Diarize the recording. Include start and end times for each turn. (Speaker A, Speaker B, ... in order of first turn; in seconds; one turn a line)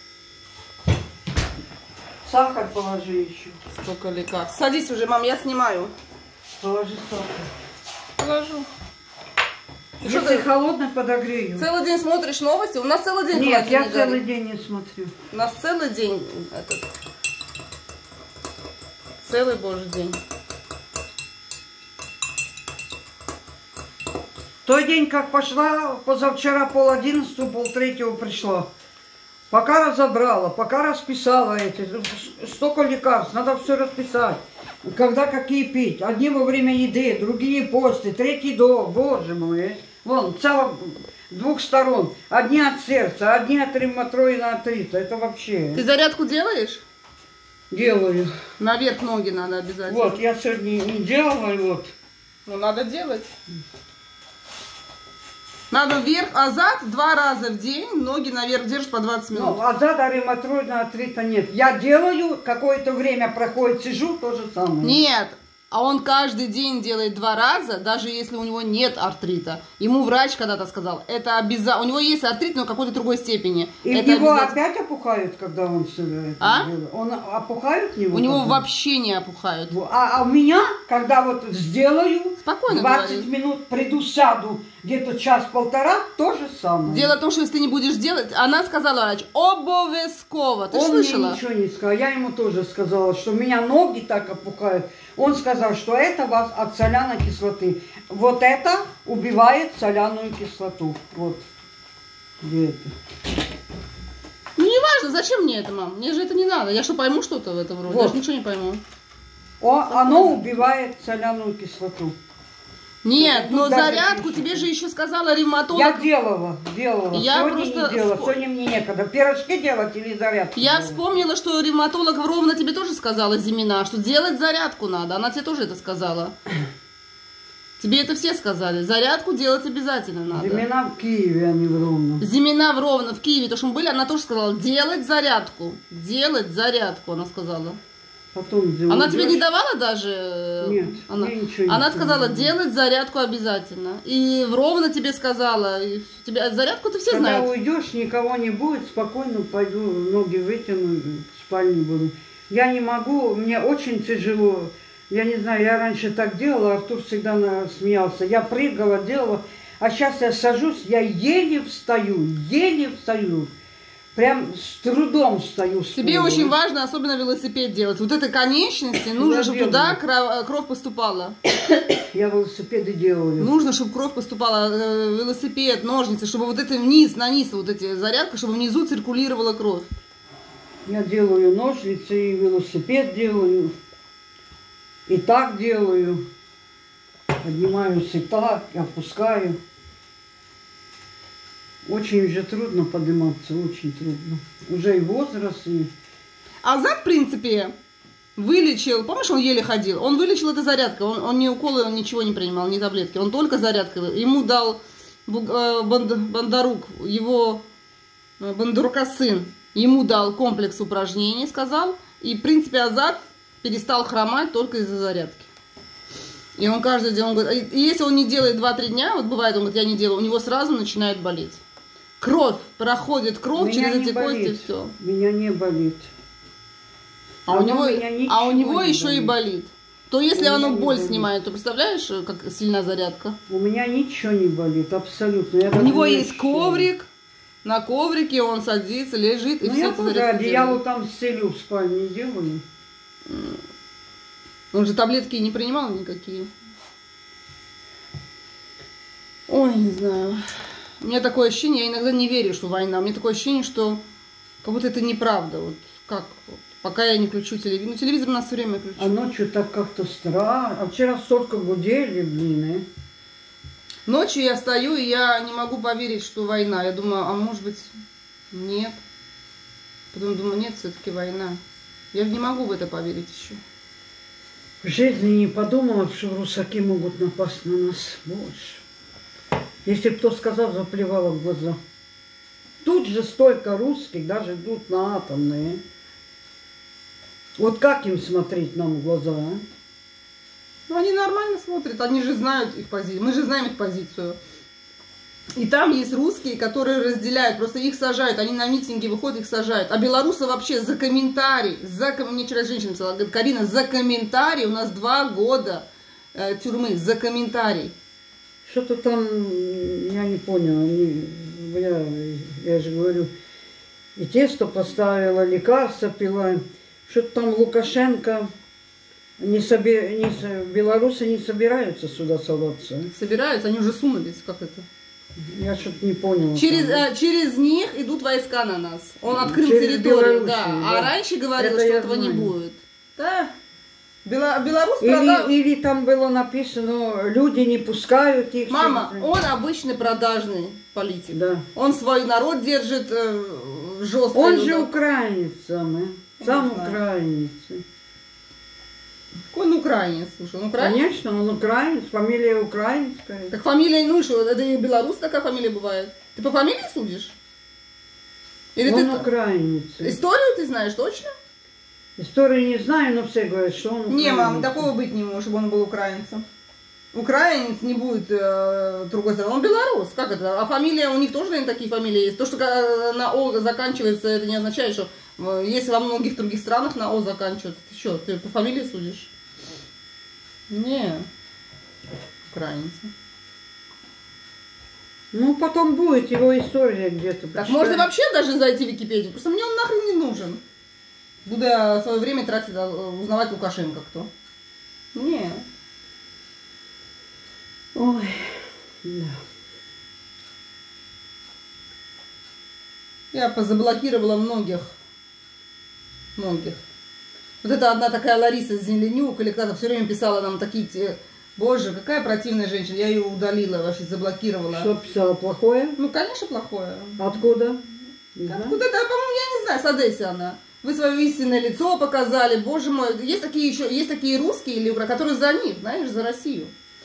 Speaker A: 2.2-3.6
Speaker B: 3.7-5.9
Speaker A: 6.6-7.5
Speaker B: 8.2-8.7
Speaker B: 10.0-10.4
Speaker A: 10.0-11.7
Speaker B: 11.6-14.2
Speaker A: 13.3-15.1
Speaker B: 15.3-16.9
Speaker B: 19.2-20.2
Speaker A: 24.6-28.7
Speaker A: 29.5-45.8
Speaker B: 45.7-46.8
Speaker A: 47.7-48.3
Speaker B: 48.6-50.2
Speaker A: 49.9-51.9
Speaker B: 52.5-53.3
Speaker B: 55.7-59.6
Speaker A: 59.3-65.0
Speaker B: 64.8-74.5
Speaker A: 73.8-78.6
Speaker B: 76.4-76.7
Speaker B: 78.1-79.8
Speaker A: 79.7-87.2
Speaker B: 82.4-83.3
Speaker B: 86.9-91.4
Speaker A: 90.7-101.4
Speaker A: 102.4-102.9
Speaker B: 104.5-108.8
Speaker A: 107.9-108.2
Speaker A: 109.6-112.2
Speaker B: 109.9-110.4
Speaker B: 113.0-116.1
Speaker A: 113.1-114.7
Speaker A: 115.7-121.0
Speaker B: 117.1-118.4
Speaker B: 120.5-126.3
Speaker B: 127.8-130.7
Speaker A: 130.3-132.2
Speaker B: 132.2-137.8
Speaker A: 138.3-139.4
Speaker B: 138.9-147.5
Speaker A: 140.6-142.5
Speaker A: 147.1-163.5
Speaker A: 164.1-166.5
Speaker B: 165.9-171.4
Speaker A: 169.2-170.0
Speaker A: 172.1-173.5
Speaker B: 173.4-179.9
Speaker A: 180.8-183.7
Speaker A: 185.1-186.2
Speaker A: 187.4-189.6
Speaker A: 191.8-195.9
Speaker B: 196.6-197.7
Speaker B: 198.4-207.6
Speaker B: 208.4-215.5
Speaker B: 216.6-221.6
Speaker B: 222.2-224.9
Speaker A: 223.5-226.1
Speaker B: 227.4-233.4
Speaker A: 227.5-229.3
Speaker A: 230.3-231.3
Speaker A: 233.5-236.9
Speaker B: 235.7-237.1
Speaker B: 237.6-240.8
Speaker A: 239.6-242.6
Speaker B: 243.2-243.6
Speaker B: 244.7-246.5
Speaker B: 249.5-250.4
Speaker B: 251.0-254.0
Speaker B: 254.6-259.1
Speaker A: 259.0-262.8
Speaker B: 264.1-267.9
Speaker B: 268.5-269.0
Speaker B: 270.1-271.6
Speaker B: 272.1-273.6
Speaker A: 274.8-278.8
Speaker A: 279.8-281.8
Speaker A: 282.8-285.8
Speaker A: 287.6-289.6
Speaker B: 290.9-294.4
Speaker B: 295.5-307.9
Speaker A: 308.6-313.3
Speaker A: 314.2-318.5
Speaker A: 319.4-323.1
Speaker B: 323.1-324.8
Speaker A: 325.4-327.0
Speaker B: 326.5-333.5
Speaker A: 329.3-332.5
Speaker B: 334.2-335.5
Speaker A: 335.0-339.3
Speaker B: 338.7-344.9
Speaker A: 341.3-341.6
Speaker A: 344.3-347.8
Speaker B: 346.4-347.0
Speaker B: 349.5-351.0
Speaker A: 350.8-353.5
Speaker B: 353.5-357.3
Speaker B: 358.8-359.3
Speaker A: 358.8-360.2
Speaker B: 360.0-361.3
Speaker A: 362.2-364.9
Speaker B: 364.1-366.4
Speaker B: 367.1-379.3
Speaker B: 380.7-381.2
Speaker B: 382.5-383.1
Speaker A: 385.3-388.1
Speaker B: 387.6-390.6
Speaker B: 391.4-394.3
Speaker B: 395.1-395.6
Speaker A: 397.9-399.4
Speaker B: 403.3-404.9
Speaker B: 406.4-406.8
Speaker B: 407.6-414.9
Speaker A: 414.7-416.0
Speaker B: 416.0-417.4
Speaker A: 417.2-417.8
Speaker A: 418.4-418.8
Speaker B: 418.5-426.7